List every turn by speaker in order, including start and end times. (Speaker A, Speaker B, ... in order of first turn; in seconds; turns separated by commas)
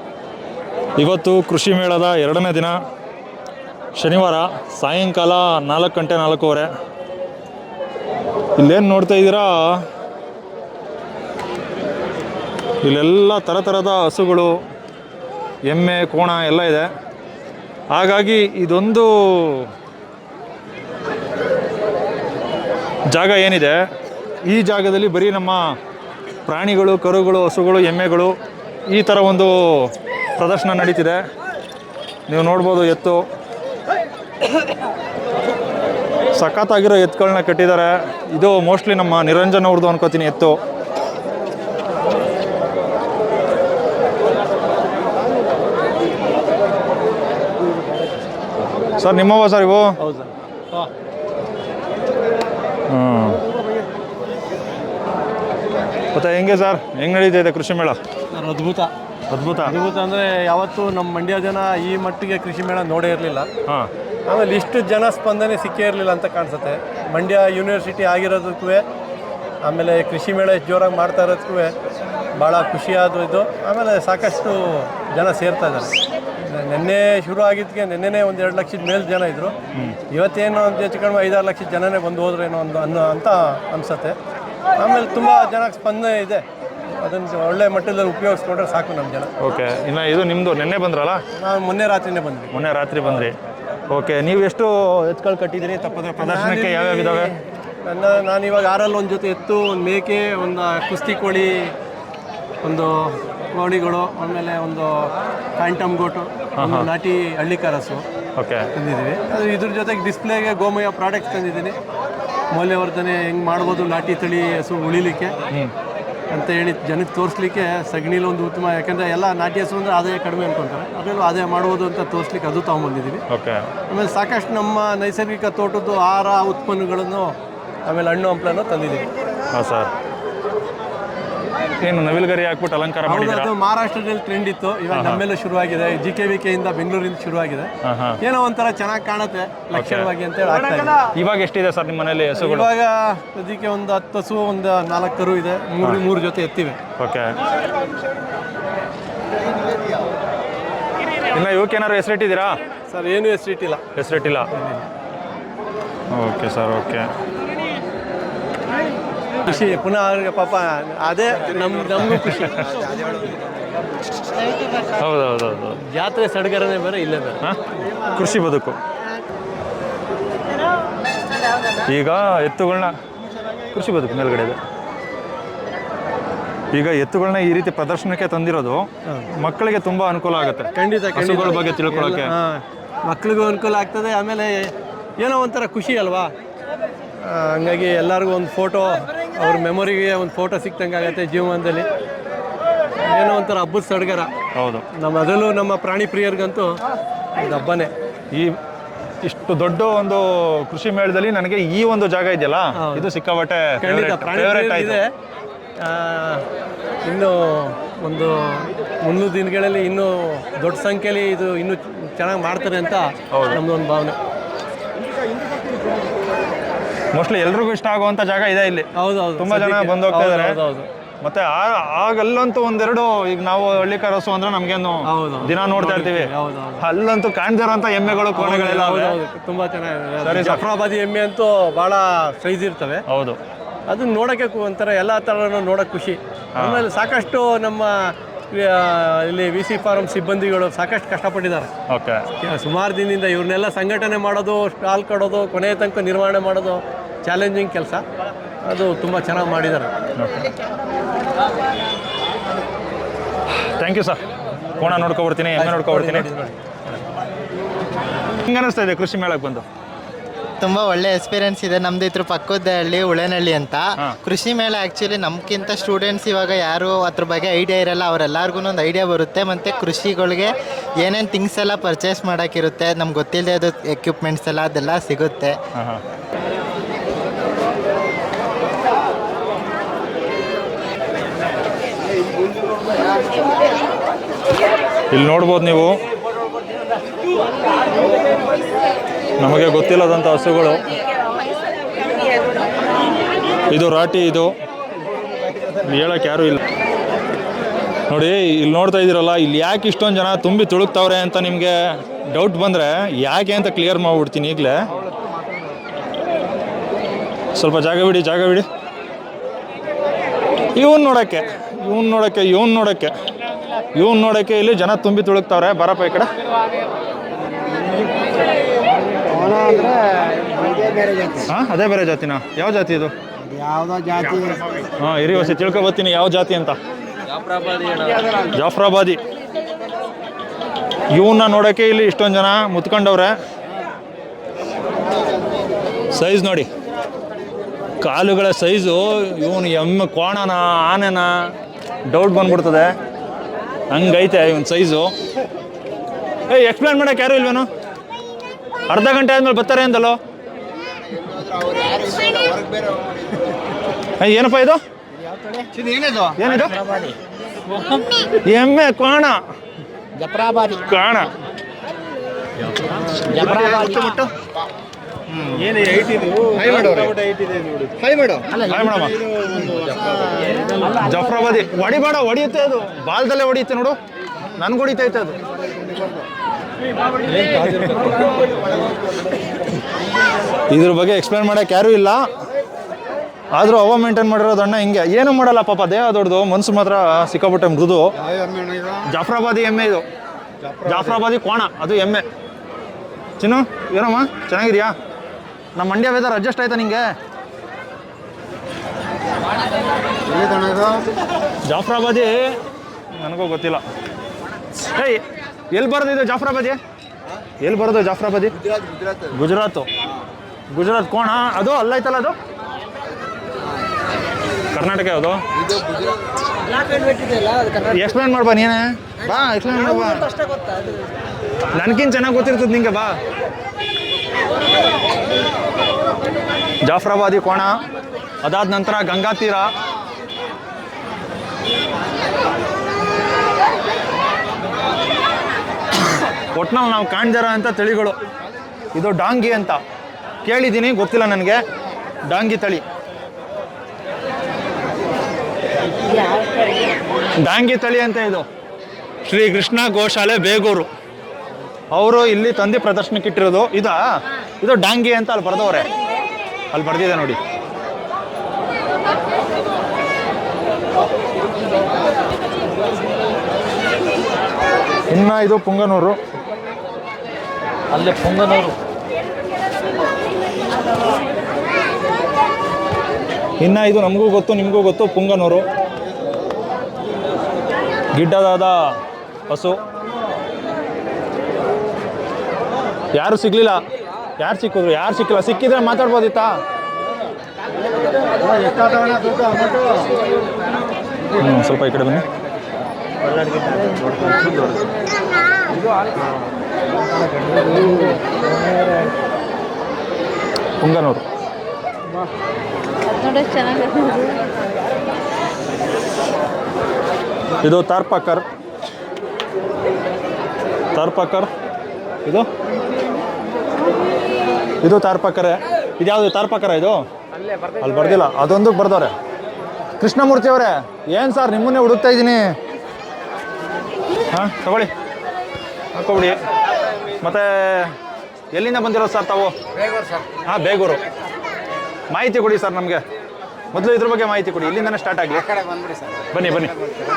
Speaker A: 1.0-2.7, Speaker A: 4.0-6.7, Speaker A: 8.6-9.8, Speaker A: 12.8-14.5, Speaker A: 15.7-16.9, Speaker A: 17.9-19.7, Speaker A: 23.1-23.8, Speaker A: 24.4-25.6, Speaker A: 26.5-28.3, Speaker A: 28.9-31.2, Speaker A: 32.3-33.2, Speaker A: 36.4-40.5, Speaker A: 49.0-49.9, Speaker B: 50.0-50.9, Speaker A: 52.9-53.4, Speaker A: 56.1-58.0, Speaker B: 58.3-58.9, Speaker A: 59.3-59.7, Speaker B: 59.6-63.5, Speaker B: 64.3-68.8, Speaker B: 69.6-71.8, Speaker B: 72.4-79.5, Speaker B: 80.1-84.2, Speaker B: 84.8-86.5, Speaker B: 87.0-89.3, Speaker A: 89.4-91.2, Speaker B: 91.4-92.5, Speaker A: 92.5-93.3, Speaker A: 93.9-97.3, Speaker B: 96.2-101.8, Speaker B: 102.6-108.0, Speaker A: 106.6-106.9, Speaker A: 108.4-108.7, Speaker B: 108.8-111.8, Speaker B: 112.5-115.4, Speaker B: 116.3-123.2, Speaker A: 123.3-123.7, Speaker B: 123.9-129.1, Speaker A: 129.5-129.9, Speaker A: 131.8-133.5, Speaker B: 133.1-141.0, Speaker A: 134.9-135.2, Speaker A: 137.8-138.2, Speaker A: 139.7-140.1, Speaker A: 140.7-142.7, Speaker B: 142.4-146.8, Speaker A: 147.0-147.3, Speaker A: 151.3-152.6, Speaker B: 152.9-153.8, Speaker A: 154.0-154.5, Speaker B: 154.5-154.8, Speaker A: 156.1-157.1, Speaker B: 159.4-162.6, Speaker A: 162.2-162.7, Speaker A: 165.0-165.8, Speaker B: 165.8-167.4, Speaker A: 168.1-168.8, Speaker A: 171.9-172.9, Speaker A: 173.7-174.6, Speaker A: 176.7-178.9, Speaker A: 179.4-182.3, Speaker B: 180.8-186.3, Speaker B: 187.2-191.9, Speaker B: 193.1-194.3, Speaker A: 194.6-194.9, Speaker B: 194.9-196.8, Speaker B: 197.3-197.9, Speaker A: 199.2-205.0, Speaker B: 202.8-203.1, Speaker B: 203.8-205.1, Speaker B: 205.8-206.4, Speaker B: 207.0-214.2, Speaker A: 213.3-213.6, Speaker A: 217.1-220.5, Speaker B: 218.9-220.9, Speaker A: 221.2-229.2, Speaker B: 225.1-226.8, Speaker B: 228.2-233.0, Speaker A: 230.2-230.6, Speaker A: 233.1-233.4, Speaker B: 233.9-241.7, Speaker A: 236.6-236.9, Speaker A: 241.9-242.2, Speaker B: 242.4-248.0, Speaker B: 248.6-249.9, Speaker A: 250.2-250.5, Speaker A: 253.8-254.2, Speaker A: 254.8-256.2, Speaker B: 255.6-257.0, Speaker A: 258.5-259.6, Speaker C: 260.6-275.6, Speaker A: 275.8-276.0, Speaker A: 285.1-286.0, Speaker A: 289.4-290.9, Speaker A: 293.7-294.5, Speaker A: 295.8-296.6, Speaker A: 298.1-301.7, Speaker A: 302.3-304.8, Speaker A: 307.6-308.7, Speaker A: 310.8-313.1, Speaker A: 313.9-316.3, Speaker D: 319.3-321.4, Speaker A: 319.5-319.9, Speaker A: 321.4-323.1, Speaker D: 323.5-324.6, Speaker A: 325.0-326.8, Speaker A: 328.5-329.2, Speaker A: 331.1-333.4, Speaker A: 336.1-336.7, Speaker A: 338.0-341.5, Speaker A: 342.1-342.9, Speaker A: 343.9-345.1, Speaker A: 346.5-347.7, Speaker A: 348.9-350.2, Speaker D: 351.4-353.0, Speaker A: 354.2-354.8, Speaker D: 355.6-356.3, Speaker A: 356.2-356.8, Speaker A: 358.4-359.4, Speaker A: 360.3-361.3, Speaker D: 360.3-360.7, Speaker A: 363.3-364.3, Speaker A: 365.3-367.2, Speaker D: 365.8-366.6, Speaker A: 367.9-369.3, Speaker D: 369.5-370.2, Speaker A: 370.9-374.0, Speaker A: 374.6-375.4, Speaker A: 377.4-378.2, Speaker A: 380.7-382.2, Speaker A: 383.5-388.1, Speaker D: 388.6-388.9, Speaker A: 389.1-390.1, Speaker A: 390.8-392.2, Speaker A: 393.4-394.9, Speaker A: 395.8-397.1, Speaker D: 400.4-401.0, Speaker A: 401.7-402.5, Speaker A: 403.2-403.8, Speaker A: 404.9-406.8, Speaker A: 407.6-408.5, Speaker A: 409.3-409.9, Speaker A: 410.7-412.4, Speaker A: 414.7-415.4, Speaker A: 417.8-420.3, Speaker A: 421.7-423.2, Speaker A: 426.8-427.7, Speaker A: 428.4-429.7, Speaker A: 436.5-438.2, Speaker A: 438.9-439.8, Speaker A: 440.4-441.6, Speaker A: 442.3-442.8, Speaker A: 447.4-448.5, Speaker A: 449.2-450.9, Speaker A: 451.9-454.0, Speaker A: 454.6-455.9, Speaker A: 456.7-457.4, Speaker A: 465.1-466.2, Speaker A: 467.9-468.7, Speaker A: 473.6-475.7, Speaker A: 478.1-478.9, Speaker A: 479.5-479.8, Speaker A: 483.1-483.8, Speaker A: 484.4-486.6, Speaker D: 488.7-489.8, Speaker A: 491.4-492.3, Speaker D: 493.6-493.9, Speaker A: 494.0-494.8, Speaker D: 497.6-498.2, Speaker A: 500.8-501.2, Speaker D: 503.1-504.2, Speaker A: 507.6-508.4, Speaker A: 510.9-511.5, Speaker A: 514.8-517.0, Speaker A: 517.8-519.1, Speaker A: 520.0-522.4, Speaker A: 524.3-524.9, Speaker A: 526.0-526.4, Speaker A: 527.2-527.9, Speaker A: 528.5-529.5, Speaker A: 530.5-531.0, Speaker A: 532.1-533.0, Speaker A: 533.7-535.5, Speaker A: 536.3-536.8